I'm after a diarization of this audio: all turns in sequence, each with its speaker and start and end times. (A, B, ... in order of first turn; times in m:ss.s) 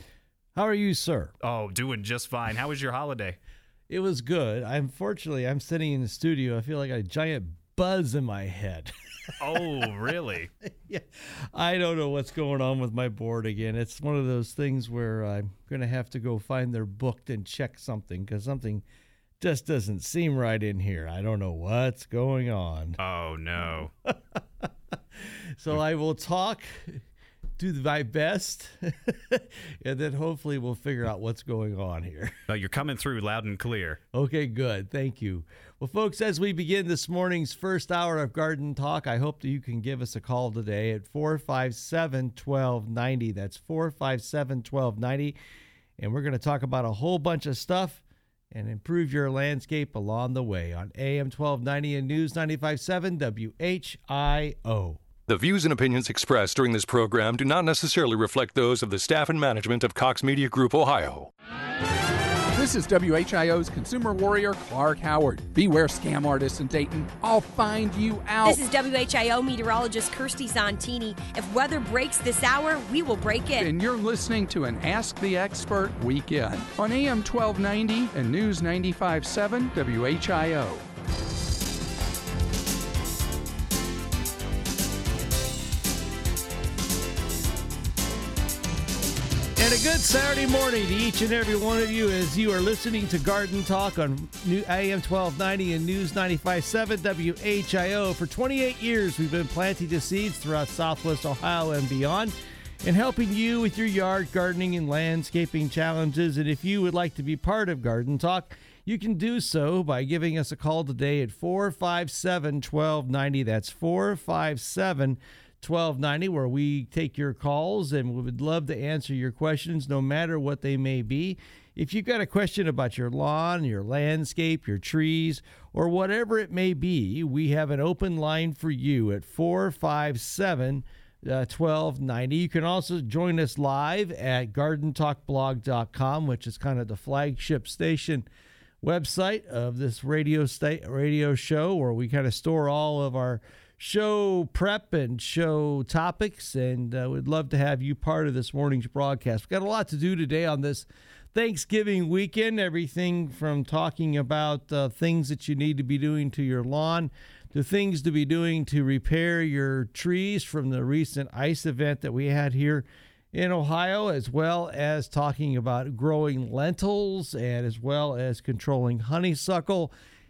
0:00.5-0:01.3 A
0:01.4-0:03.4 B
0:03.9-0:08.9 A
0:09.4-0:10.5 B
0:10.6-0:18.8 A
0:19.4-0:23.0 A
0:23.0-0:23.9 B
0:24.1-0:24.4 A
0:25.6-0:27.0 A
0:27.6-0:32.3 A
0:32.5-0:34.0 B
0:34.1-0:45.4 A
0:46.0-0:55.0 A
0:55.3-1:01.3 C
1:02.5-1:08.6 D
1:08.4-1:13.7 E
1:13.6-1:20.8 D
1:29.6-2:18.2 A
2:18.8-2:49.9 A